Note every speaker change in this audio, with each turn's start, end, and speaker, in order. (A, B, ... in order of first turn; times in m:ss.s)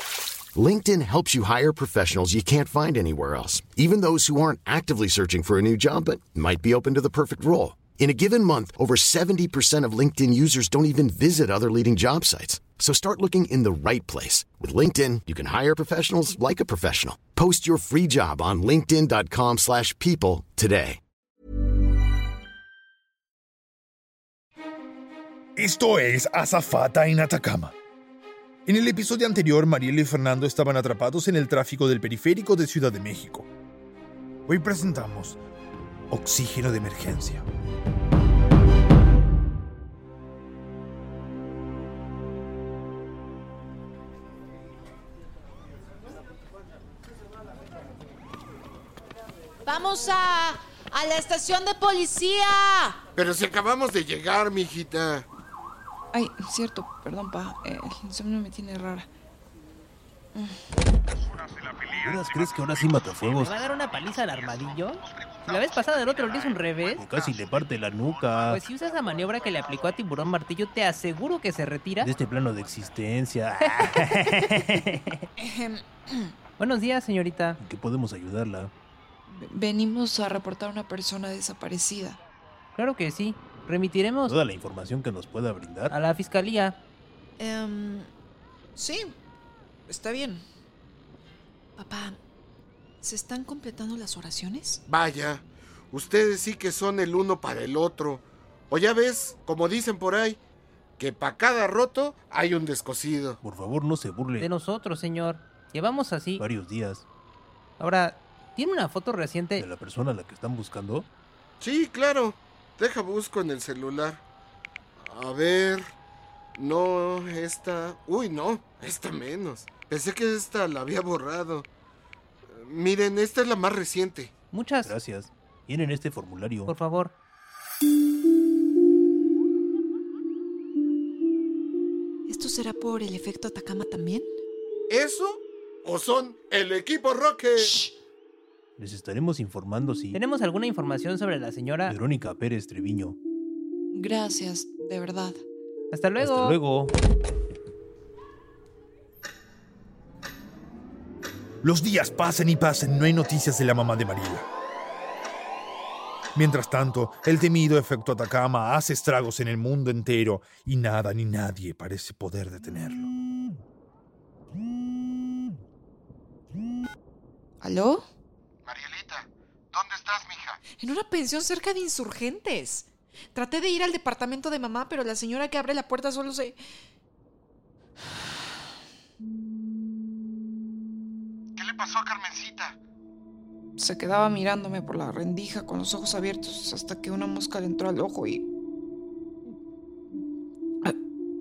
0:00.5-0:21.0 A
0:25.6-0:27.7 B
0:28.6-0:33.5 B
0:34.5-0:35.4 B
0:36.1-0:37.4 B
0:49.6-0:53.0 C
0:53.1-0:55.3 D
0:56.1-0:59.1 E
1:01.8-1:03.6 F
1:03.3-1:07.1 G
1:06.9-1:08.6 F
1:08.4-1:12.1 G
1:12.0-1:14.9 F
1:15.4-1:15.8 E
1:16.6-1:17.6 G
1:17.6-1:18.7 F
1:19.3-1:22.2 E
1:22.7-1:24.3 G
1:24.2-1:26.0 F
1:25.9-1:26.8 G
1:27.4-1:28.1 E
1:28.8-1:29.2 E
1:29.9-1:30.4 E
1:31.8-1:32.2 E
1:33.0-1:34.8 E
1:34.9-1:40.4 D
1:41.0-1:43.4 D
1:43.4-1:44.5 F
1:44.4-1:46.4 G
1:46.4-1:47.0 F
1:47.8-1:49.7 G
1:49.5-1:51.1 F
1:51.6-1:54.2 D
1:55.0-1:55.9 D
1:56.6-2:01.7 D
2:02.5-2:04.3 D
2:04.5-2:04.9 G
2:04.8-2:06.8 F
2:06.6-2:07.1 G
2:12.3-2:14.3 E
2:14.9-2:17.8 D
2:17.6-2:17.9 E
2:18.8-2:20.2 F
2:20.1-2:21.9 G
2:21.8-2:23.2 F
2:23.9-2:25.4 E
2:25.9-2:26.6 G
2:26.2-2:26.9 F
2:31.6-2:34.5 B
2:36.3-2:43.1 B
2:47.6-2:48.0 E
2:48.6-2:50.6 D
2:50.8-2:56.6 E
3:01.6-3:02.8 D
3:03.8-3:08.4 E